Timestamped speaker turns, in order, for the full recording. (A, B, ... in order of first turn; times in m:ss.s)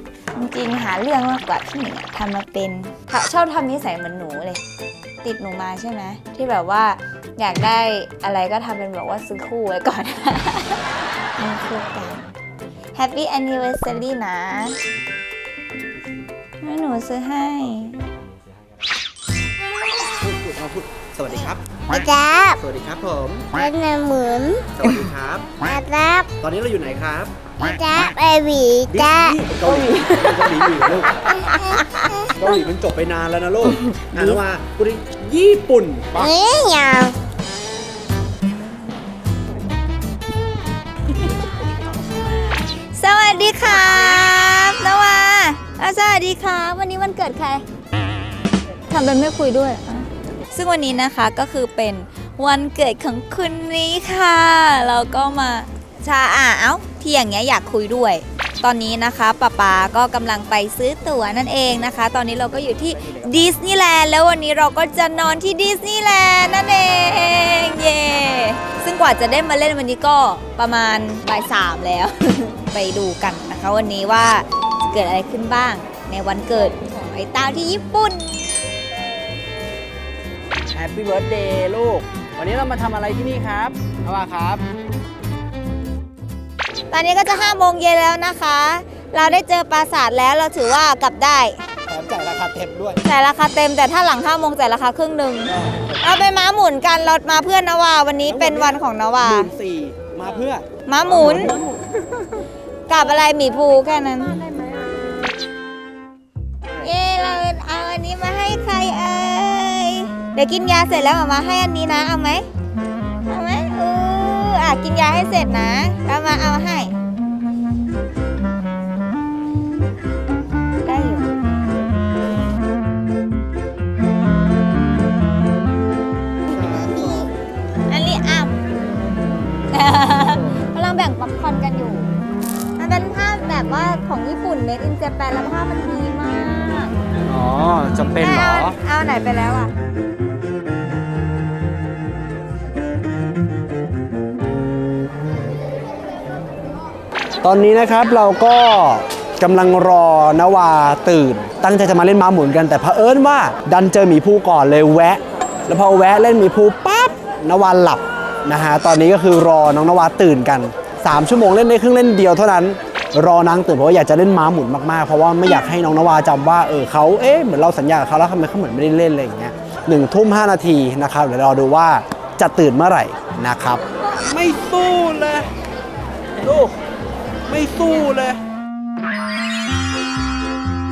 0:00.3-0:04.6 A
0:05.2-0:10.8 A
0:11.4-0:12.3 A
0:12.9-0:14.8 A
0:16.6-0:18.0 A
0:17.6-0:18.9 B
0:20.2-0:21.8 B
0:21.9-0:22.6 C
0:22.5-0:23.6 B
0:23.6-0:24.7 C
0:24.7-0:25.5 B
0:25.6-0:26.3 C
0:26.4-0:27.3 B
0:27.6-0:29.4 C
0:28.9-0:31.3 B
0:31.4-0:32.4 C
0:32.3-0:36.3 B
0:36.2-0:37.2 C
0:42.3-0:47.6 A
0:48.9-1:18.4 A
1:02.5-1:03.4 B
1:20.7-1:24.6 B
1:26.9-1:31.6 A
1:31.9-1:33.0 B
1:33.0-1:39.5 A
1:38.2-1:42.4 B
1:40.8-1:41.6 A
1:42.9-1:44.4 A
1:46.8-1:52.4 A
1:53.2-1:56.9 A
2:00.8-2:01.3 A
2:06.5-2:07.3 A
2:07.9-2:08.6 A
2:09.7-2:12.1 A
2:12.8-2:16.9 A
2:17.2-2:18.8 B
2:18.2-2:19.7 A
2:27.4-2:55.5 B
2:56.3-2:56.8 B
2:57.5-2:58.4 B